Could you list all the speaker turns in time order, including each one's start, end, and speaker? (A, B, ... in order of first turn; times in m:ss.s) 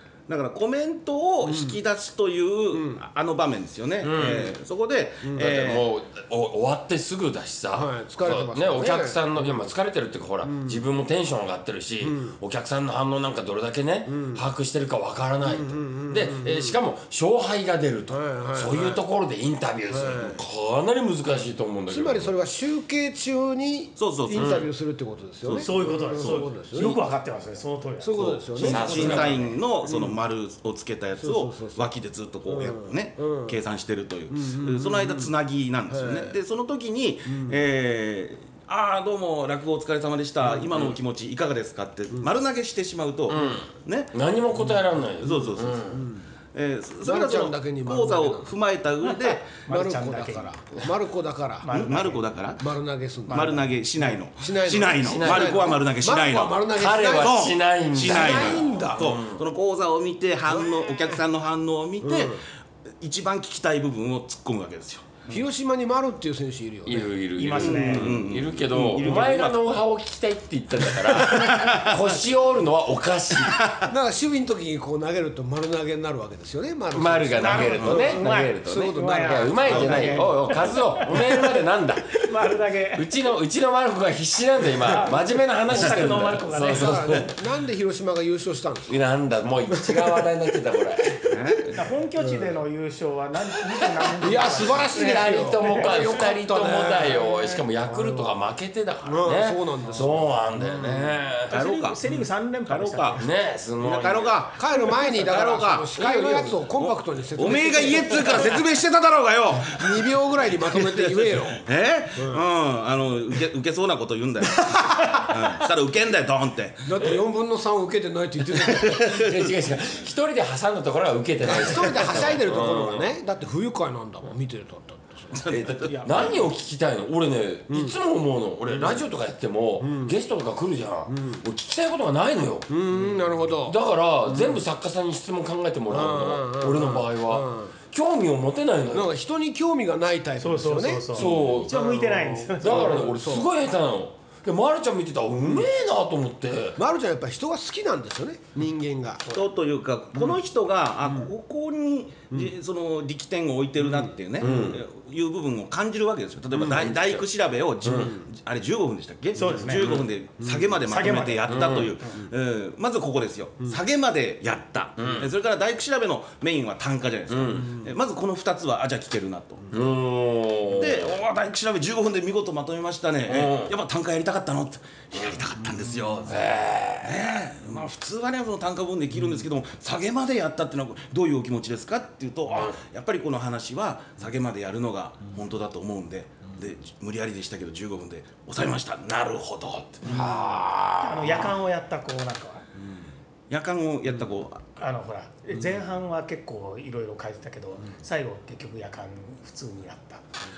0:00.3-0:05.8 A
0:01.4-0:01.8 B
0:02.7-0:03.0 B
0:04.0-0:04.5 C
0:05.2-0:05.5 B
0:05.4-0:22.3 C
0:07.7-0:09.6 B
0:10.4-0:10.8 B
0:12.0-0:12.3 B
0:14.1-0:14.4 B
0:15.4-0:16.8 B
0:18.1-0:19.0 B
0:19.9-0:20.4 B
0:21.9-0:27.0 B
0:24.0-0:24.7 A
0:24.3-0:24.6 C
0:25.4-0:26.4 A
0:25.5-0:29.0 D
0:28.0-0:30.2 B
0:28.5-0:44.1 A
0:28.6-0:29.4 C
0:31.2-0:31.8 B
0:32.5-0:33.6 B
0:34.3-0:35.3 B
0:35.9-0:36.4 B
0:37.3-0:37.6 B
0:43.3-0:46.0 C
0:45.2-0:46.0 A
0:45.9-0:46.2 B
0:46.5-0:49.5 A
0:47.0-0:48.5 B
0:49.1-0:50.5 D
0:49.7-0:51.7 B
0:51.6-0:52.2 D
0:51.7-0:52.7 A
0:52.6-0:57.4 B
0:53.3-1:02.4 A
0:53.3-0:53.6 D
0:55.0-0:55.8 C
0:56.7-0:59.4 C
0:58.0-0:59.2 B
1:00.5-1:01.2 B
1:02.0-1:02.4 B
1:03.0-1:05.3 A
1:05.3-1:08.0 B
1:06.8-1:13.6 C
1:07.4-1:08.1 D
1:07.6-1:09.6 A
1:10.9-1:12.0 A
1:13.4-1:13.9 A
1:13.9-1:20.7 B
1:16.9-1:22.3 C
1:17.4-1:21.6 D
1:17.4-1:18.1 A
1:22.2-1:23.3 D
1:22.9-1:27.4 C
1:24.9-1:27.3 D
1:26.6-1:29.0 B
1:28.9-1:31.4 C
1:29.7-1:30.2 B
1:31.3-1:31.8 A
1:31.7-1:36.1 D
1:32.2-1:32.5 B
1:34.0-1:41.6 C
1:34.2-1:37.3 B
1:37.0-1:37.7 D
1:37.9-1:38.3 B
1:39.0-1:41.1 B
1:41.5-1:43.3 D
1:41.5-1:42.0 A
1:42.7-1:43.2 A
1:43.2-1:44.4 C
1:43.8-1:45.9 A
1:44.5-1:48.6 B
1:45.9-1:46.6 C
1:46.7-1:57.0 A
1:49.6-1:51.6 B
1:52.2-1:52.5 B
1:54.6-1:55.4 B
1:56.8-1:59.1 B
1:58.6-1:59.4 A
1:58.9-2:03.1 C
2:01.4-2:05.4 B
2:05.3-2:06.3 A
2:05.4-2:19.1 C
2:05.8-2:06.4 D
2:07.7-2:08.0 B
2:08.7-2:09.1 B
2:09.8-2:10.1 B
2:11.1-2:11.4 B
2:12.7-2:14.6 B
2:15.9-2:17.8 B
2:18.9-2:23.5 B
2:20.4-2:23.1 D
2:21.1-2:26.8 C
2:26.8-2:29.2 B
2:29.3-2:49.7 A
2:34.4-2:34.8 C
2:36.7-2:37.2 C
2:37.8-2:38.2 C
2:37.8-2:38.2 B
2:39.4-2:40.0 D
2:39.4-2:40.7 B
2:40.8-2:41.8 D
2:41.5-2:42.0 C
2:45.0-2:45.3 C
2:47.3-2:47.8 C
2:49.7-2:51.1 C
2:50.7-3:10.2 A
2:53.3-2:53.7 C
2:56.2-2:57.2 C
3:02.5-3:02.8 C
3:10.0-3:11.6 C
3:11.0-3:12.6 D
3:13.5-3:14.8 A
3:14.8-3:20.2 D